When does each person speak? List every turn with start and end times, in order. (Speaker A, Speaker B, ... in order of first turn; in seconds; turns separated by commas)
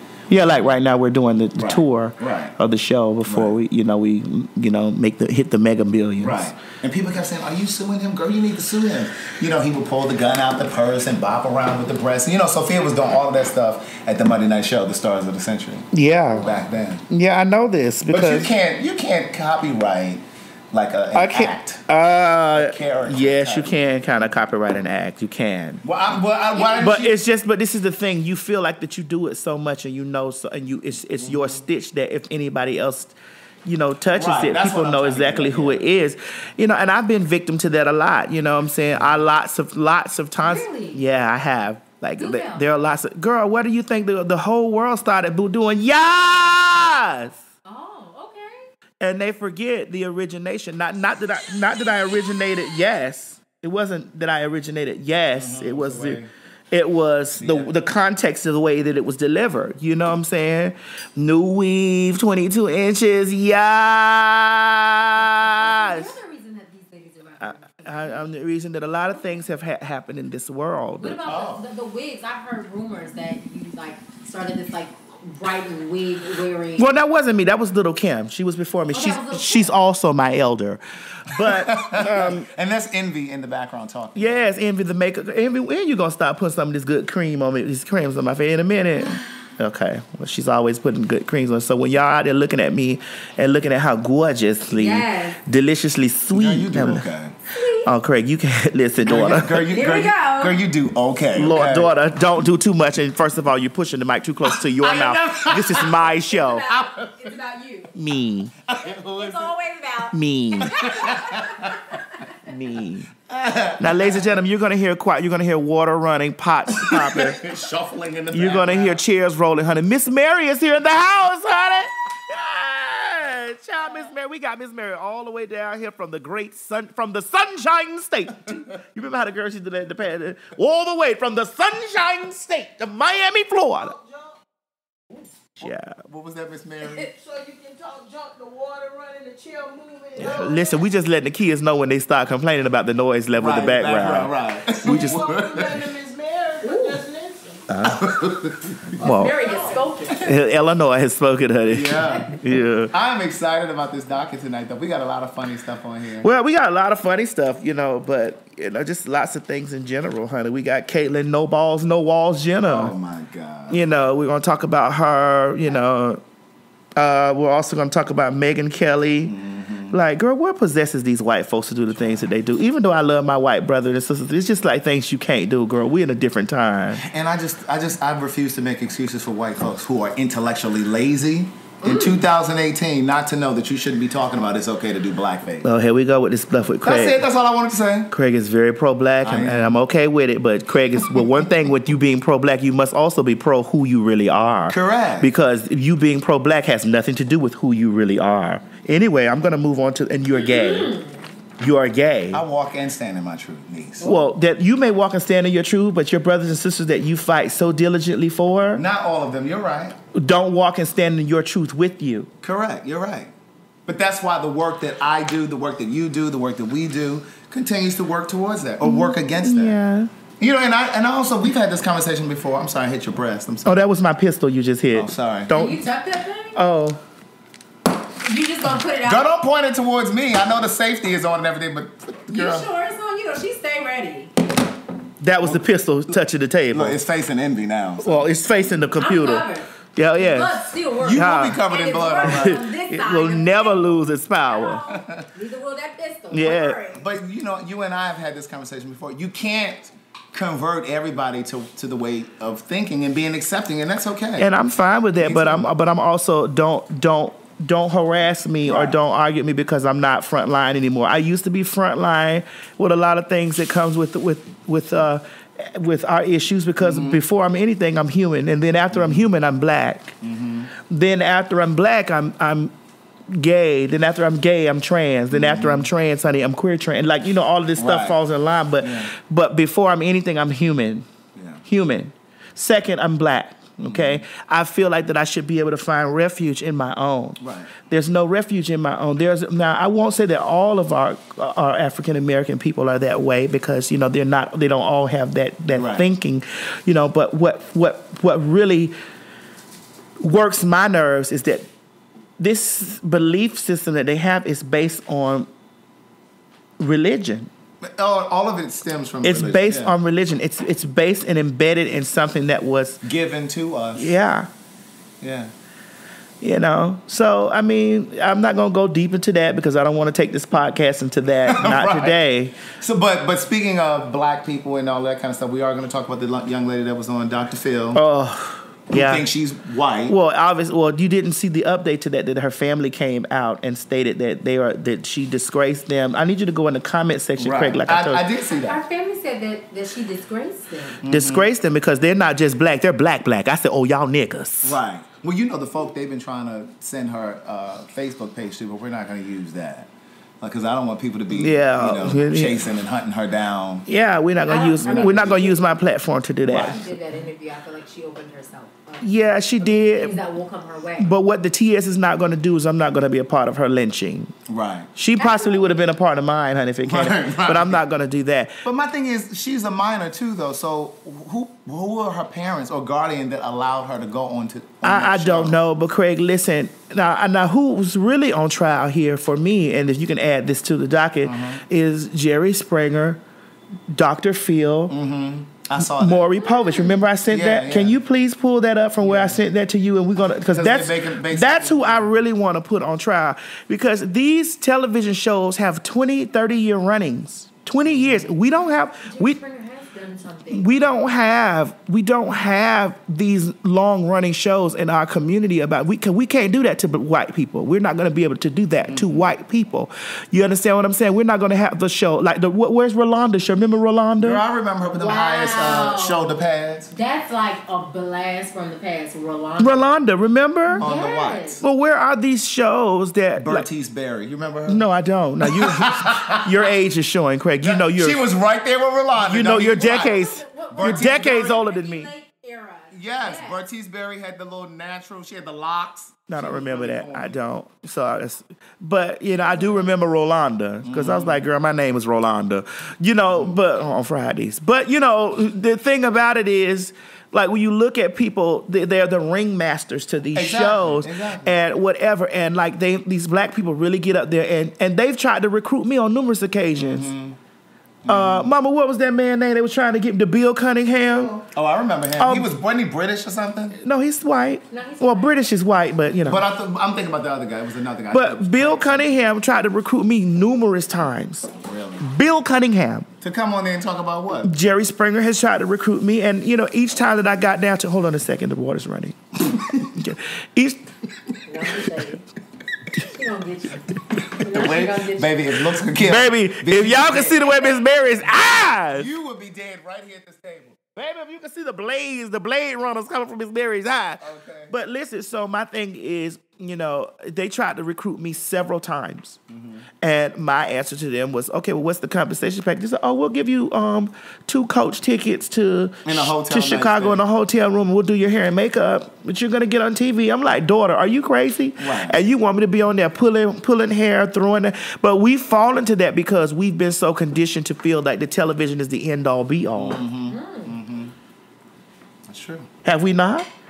Speaker A: 0.3-6.5, Speaker B: 1.6-2.5, Speaker B: 3.2-3.6, Speaker B: 6.2-17.0, Speaker A: 15.9-16.5, Speaker A: 17.1-18.5, Speaker B: 18.1-21.8, Speaker A: 21.1-25.8, Speaker B: 22.5-23.7, Speaker B: 25.8-27.2, Speaker A: 26.8-47.4, Speaker B: 31.2-31.6, Speaker B: 34.1-35.9, Speaker C: 40.4-41.0, Speaker C: 42.2-42.6, Speaker C: 47.6-48.7, Speaker A: 49.0-56.2, Speaker B: 55.3-56.3, Speaker A: 56.7-66.1, Speaker B: 57.4-57.7, Speaker C: 65.4-68.2, Speaker A: 67.4-71.2, Speaker C: 71.0-76.8, Speaker B: 71.2-71.6, Speaker A: 76.8-82.5, Speaker C: 78.9-79.7, Speaker B: 81.3-84.4, Speaker A: 84.1-97.1, Speaker C: 94.7-95.4, Speaker B: 96.3-97.3, Speaker C: 97.5-97.9, Speaker A: 97.8-99.7, Speaker B: 99.0-101.9, Speaker C: 99.7-100.6, Speaker A: 101.3-106.6, Speaker B: 104.7-106.1, Speaker C: 105.8-107.9, Speaker B: 106.7-107.1, Speaker A: 107.9-108.5, Speaker B: 108.7-109.5, Speaker C: 108.8-112.0, Speaker A: 110.1-110.8, Speaker B: 110.6-112.0, Speaker A: 112.5-113.1, Speaker B: 113.3-114.4, Speaker A: 113.8-117.4, Speaker B: 116.7-119.0, Speaker A: 118.3-133.9, Speaker D: 133.8-134.4, Speaker A: 135.6-136.0, Speaker B: 135.6-137.1, Speaker D: 137.1-140.8, Speaker A: 140.2-145.2, Speaker B: 143.4-145.9, Speaker D: 144.8-147.6, Speaker C: 146.6-147.0, Speaker A: 147.7-148.2, Speaker B: 147.8-148.9, Speaker A: 149.0-149.4, Speaker C: 149.0-150.4, Speaker A: 150.2-152.9, Speaker B: 151.7-152.3, Speaker B: 152.9-156.3, Speaker A: 156.2-162.9, Speaker B: 162.7-163.8, Speaker A: 163.7-166.2, Speaker A: 166.9-169.3, Speaker B: 169.2-170.0, Speaker A: 169.9-177.0, Speaker B: 177.0-185.7, Speaker A: 185.6-187.2, Speaker B: 186.8-188.1, Speaker A: 188.1-200.9, Speaker B: 189.2-189.8, Speaker B: 194.7-195.3, Speaker C: 200.3-201.2, Speaker A: 201.6-202.4, Speaker B: 202.3-204.2, Speaker A: 204.0-208.8, Speaker B: 208.7-209.9, Speaker A: 210.1-212.3, Speaker B: 212.4-213.3, Speaker B: 213.8-219.8, Speaker A: 218.8-220.1, Speaker B: 220.4-223.8, Speaker A: 223.6-225.8, Speaker B: 224.9-225.6, Speaker C: 225.5-226.6, Speaker A: 226.5-227.0, Speaker C: 228.2-229.3, Speaker B: 229.0-232.7, Speaker C: 232.3-234.3, Speaker A: 235.2-237.0, Speaker B: 236.7-238.3, Speaker A: 238.0-241.6, Speaker C: 239.0-247.0, Speaker B: 241.0-242.6, Speaker A: 242.2-244.9, Speaker B: 244.9-245.3, Speaker A: 246.3-246.8, Speaker B: 246.9-254.5, Speaker A: 254.4-270.1, Speaker B: 255.2-255.7, Speaker B: 258.6-258.9, Speaker B: 266.8-267.2, Speaker B: 268.9-269.2, Speaker B: 270.2-270.7, Speaker A: 270.8-272.7, Speaker A: 273.3-281.1, Speaker B: 275.3-275.9, Speaker B: 277.8-278.2, Speaker B: 278.8-279.1, Speaker B: 281.3-281.6, Speaker A: 281.6-298.9, Speaker B: 283.8-284.2, Speaker B: 287.4-287.7, Speaker B: 295.7-296.1, Speaker A: 300.2-301.7, Speaker A: 302.4-305.5, Speaker A: 306.8-307.5, Speaker B: 307.8-309.9, Speaker A: 309.2-313.0, Speaker B: 313.0-314.1, Speaker A: 313.9-314.5, Speaker B: 315.2-315.5, Speaker A: 316.4-322.6, Speaker B: 321.4-328.0, Speaker A: 327.9-329.2, Speaker B: 328.9-330.1, Speaker A: 330.1-338.2, Speaker B: 337.4-338.8, Speaker C: 338.5-341.0, Speaker B: 341.0-341.5, Speaker A: 341.1-344.8, Speaker B: 344.6-349.9, Speaker B: 350.4-353.8, Speaker A: 351.3-352.6, Speaker A: 353.9-356.8, Speaker C: 354.5-355.6, Speaker B: 354.8-355.4, Speaker C: 356.4-361.1, Speaker A: 359.0-360.2, Speaker A: 361.0-364.3, Speaker B: 364.5-364.9, Speaker A: 364.9-368.6, Speaker C: 365.2-365.7, Speaker B: 366.8-367.8, Speaker B: 368.6-375.6, Speaker A: 374.8-383.2, Speaker B: 381.2-381.6, Speaker A: 383.9-384.9, Speaker B: 384.9-386.3, Speaker A: 385.8-399.4, Speaker C: 386.4-387.0, Speaker B: 387.2-388.0, Speaker B: 389.0-389.4, Speaker B: 390.5-392.1, Speaker C: 399.1-400.8, Speaker A: 400.5-414.4, Speaker B: 408.9-409.3, Speaker B: 414.2-416.9, Speaker C: 415.0-416.3, Speaker C: 416.9-419.8, Speaker A: 419.6-420.8, Speaker B: 420.8-421.6, Speaker C: 420.8-421.6, Speaker A: 421.6-423.6, Speaker B: 423.4-424.8, Speaker A: 424.7-428.2, Speaker B: 425.4-426.6, Speaker B: 427.6-430.2, Speaker A: 429.2-432.1, Speaker C: 429.8-433.6, Speaker B: 430.7-431.6, Speaker B: 432.9-437.4, Speaker A: 436.3-457.1, Speaker B: 440.8-441.4, Speaker B: 443.3-443.6, Speaker B: 450.3-451.6, Speaker B: 456.8-457.4, Speaker B: 458.0-458.5, Speaker A: 458.1-461.3, Speaker B: 461.1-463.8, Speaker A: 462.2-462.5, Speaker A: 463.8-466.4, Speaker C: 464.7-465.5, Speaker B: 466.2-469.2, Speaker A: 468.1-473.1, Speaker B: 471.5-472.0, Speaker B: 473.2-474.5, Speaker A: 474.4-480.9, Speaker C: 481.4-482.2, Speaker C: 483.0-485.4, Speaker B: 484.4-487.6, Speaker A: 486.0-489.1, Speaker C: 487.6-488.0, Speaker B: 488.9-490.8, Speaker A: 490.9-499.4, Speaker B: 494.2-494.7, Speaker B: 499.5-499.8, Speaker A: 500.0-520.0, Speaker B: 506.0-507.2, Speaker B: 511.8-512.2, Speaker B: 519.8-521.1, Speaker C: 520.3-520.8, Speaker B: 522.3-522.7, Speaker A: 522.8-523.5